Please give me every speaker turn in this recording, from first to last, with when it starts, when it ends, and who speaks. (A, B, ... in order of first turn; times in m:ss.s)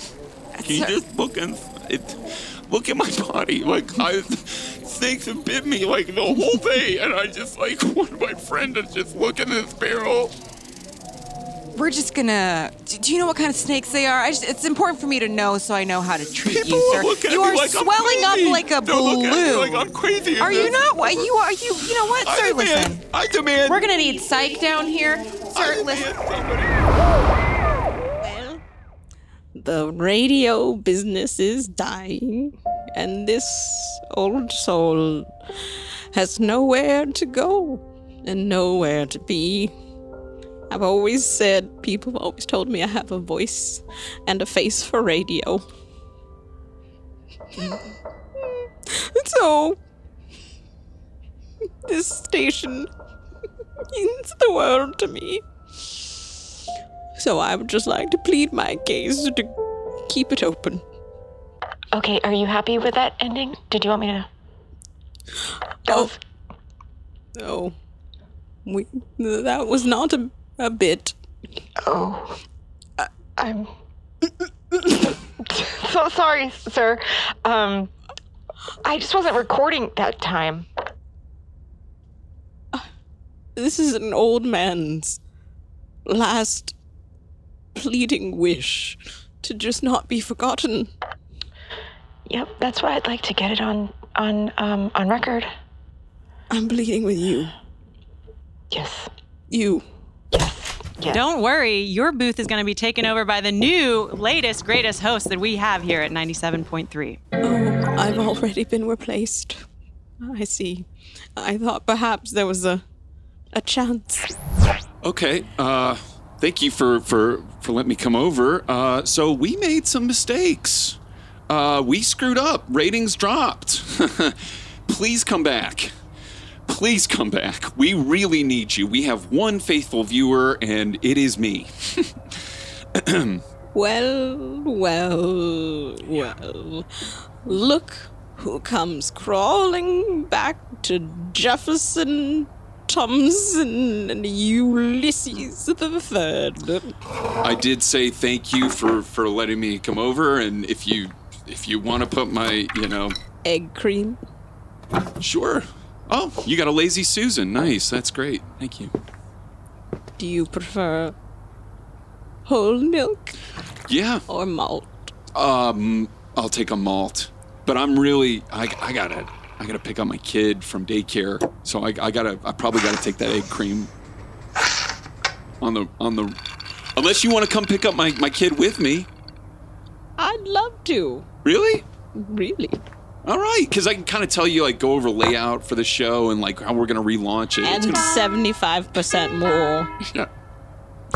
0:00.6-0:01.0 A
0:00.6-0:10.3 B
0:11.7-0:19.9 A
0:16.4-0:21.3 B
0:20.4-0:23.0 A
0:21.8-0:23.8 B
0:23.6-0:26.1 A
0:25.5-0:27.0 B
0:28.2-0:28.6 C
0:29.6-0:35.3 C
0:36.1-0:39.7 C
0:40.7-0:45.6 C
0:48.9-0:49.8 C
0:51.9-0:52.9 C
0:53.9-0:55.4 C
0:57.2-0:59.5 C
1:00.1-1:00.8 C
1:01.9-1:04.3 D
1:05.8-1:06.2 D
1:07.4-1:07.7 C
1:08.6-1:11.1 C
1:11.8-1:12.4 D
1:13.0-1:13.7 D
1:14.7-1:17.9 D
1:18.8-1:20.7 D
1:23.6-1:25.2 C
1:26.0-1:26.7 C
1:27.8-1:30.9 C
1:32.3-1:35.5 D
1:36.5-1:37.5 C
1:38.7-1:39.1 D
1:39.5-1:39.8 C
1:40.3-1:41.2 D
1:41.1-1:47.2 E
1:47.4-1:49.6 C
1:50.2-1:52.8 C
1:53.5-1:54.3 C
1:55.0-2:01.0 B
2:01.5-2:05.9 B
2:06.7-2:12.1 B
2:13.0-2:13.4 B
2:13.7-2:16.9 C
2:17.4-2:26.9 C
2:27.4-2:33.1 B
2:33.4-2:34.2 C
2:35.2-2:38.9 B
2:40.2-2:41.1 C
2:42.4-2:43.3 C
2:43.9-2:44.2 B
2:44.3-2:44.9 C
2:45.3-2:53.9 B
2:55.6-2:56.4 B
2:57.0-2:59.1 B
3:00.2-3:01.3 C
3:01.4-3:01.8 B
3:02.1-3:02.8 C
3:03.2-3:08.2 B
3:07.6-3:09.9 C